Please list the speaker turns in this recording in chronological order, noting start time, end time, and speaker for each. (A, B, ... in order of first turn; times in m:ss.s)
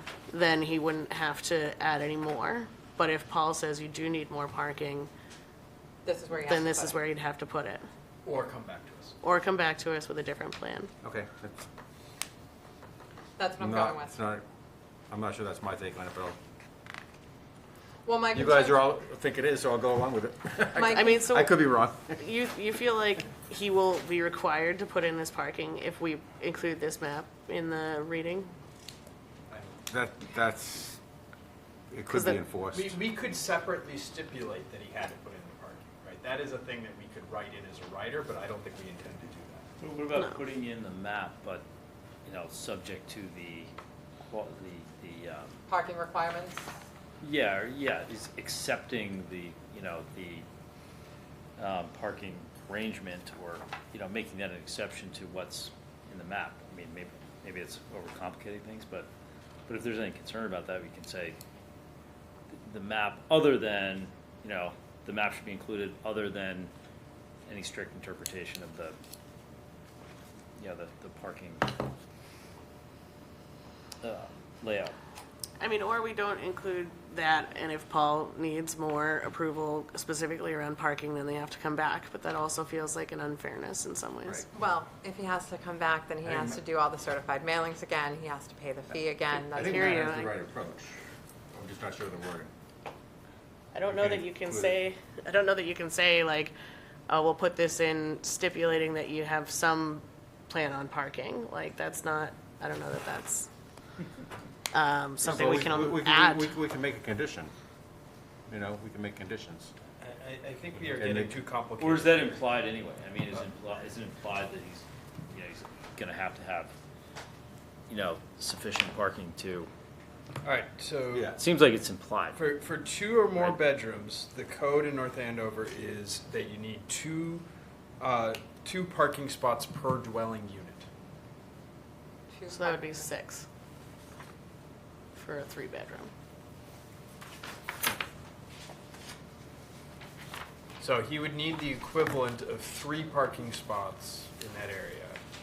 0:00.3-0:05.1 A
0:06.0-0:07.0 B
0:06.4-0:07.9 A
0:08.2-0:09.2 C
0:09.2-0:10.9 A
0:11.0-0:11.7 D
0:13.4-0:14.1 B
0:13.6-0:14.4 D
0:15.1-0:16.4 D
0:18.0-0:18.9 B
0:18.3-0:22.2 D
0:20.8-0:21.2 B
0:20.8-0:28.5 A
0:29.5-0:29.8 C
0:29.9-0:31.0 D
0:31.9-0:33.0 D
0:32.1-0:32.4 A
0:32.7-0:39.7 C
0:39.8-0:41.6 E
0:42.2-0:43.7 E
0:44.3-0:45.6 E
0:45.7-0:46.7 B
0:47.2-0:50.5 E
0:51.6-0:59.1 E
0:59.7-1:01.4 E
1:02.5-1:06.7 E
1:07.5-1:09.0 E
1:10.6-1:11.7 E
1:14.0-1:15.0 E
1:15.6-1:24.4 A
1:24.2-1:24.6 D
1:24.6-1:30.0 B
1:26.3-1:26.6 C
1:29.5-1:31.0 D
1:29.5-1:30.3 A
1:31.5-1:32.5 D
1:33.7-1:36.5 A
1:33.8-1:34.8 D
1:37.1-1:43.5 A
1:44.7-1:46.6 A
1:45.2-1:47.5 D
1:48.5-1:49.7 D
1:50.0-1:52.4 C
1:51.0-1:51.4 D
1:51.8-1:56.7 E
1:57.9-1:59.7 E
2:00.4-2:01.4 C
2:01.4-2:02.4 E
2:02.3-2:07.5 C
2:08.0-2:10.9 C
2:12.3-2:13.1 B
2:12.5-2:13.5 A
2:15.2-2:16.1 A
2:20.8-2:25.2 C